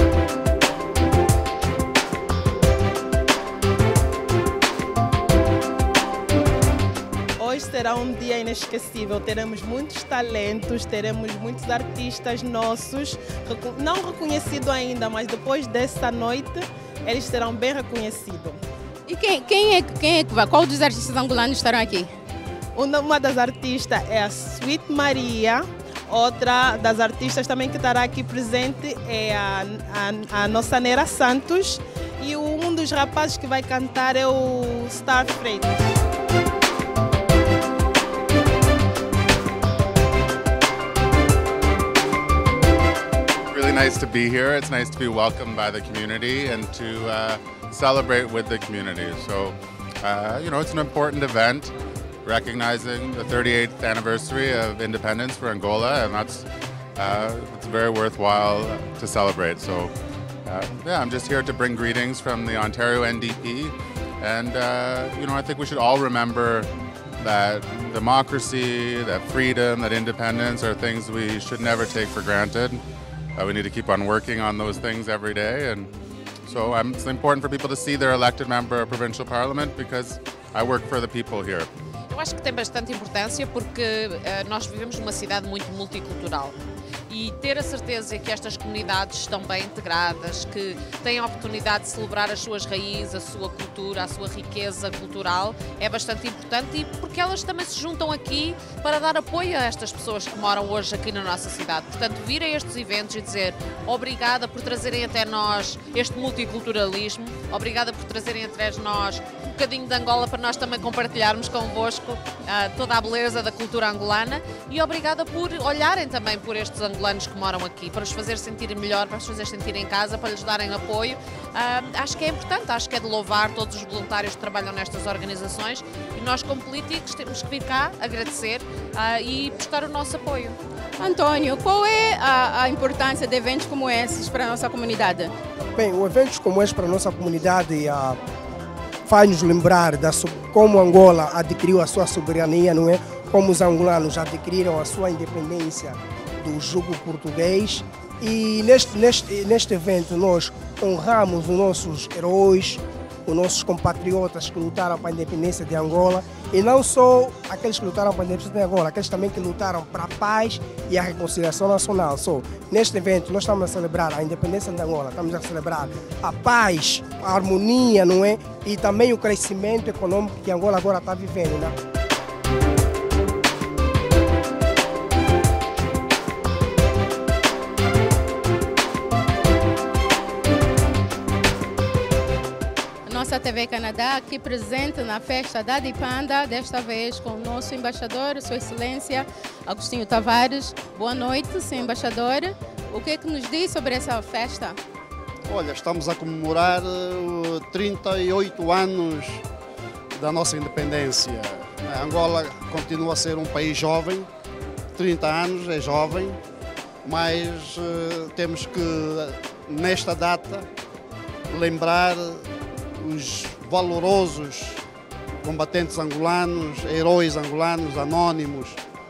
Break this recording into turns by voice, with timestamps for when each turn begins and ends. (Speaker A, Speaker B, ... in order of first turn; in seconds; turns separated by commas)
Speaker A: 7.4-18.6, Speaker B: 19.1-22.1, Speaker A: 22.7-35.9, Speaker C: 43.5-51.7, Speaker C: 52.2-59.9, Speaker C: 60.5-66.7, Speaker C: 67.2-72.8, Speaker C: 73.3-75.9, Speaker C: 76.4-81.7, Speaker D: 82.1-86.6, Speaker D: 87.1-130.6, Speaker B: 131.0-135.3, Speaker E: 135.8-138.2, Speaker E: 139.1-171.8, Speaker B: 183.1-194.8, Speaker F: 195.5-199.4, Speaker F: 200.2-204.3, Speaker F: 204.9-206.4, Speaker F: 207.0-210.7, Speaker F: 211.5-212.5, Speaker F: 213.0-214.8, Speaker F: 215.4-218.8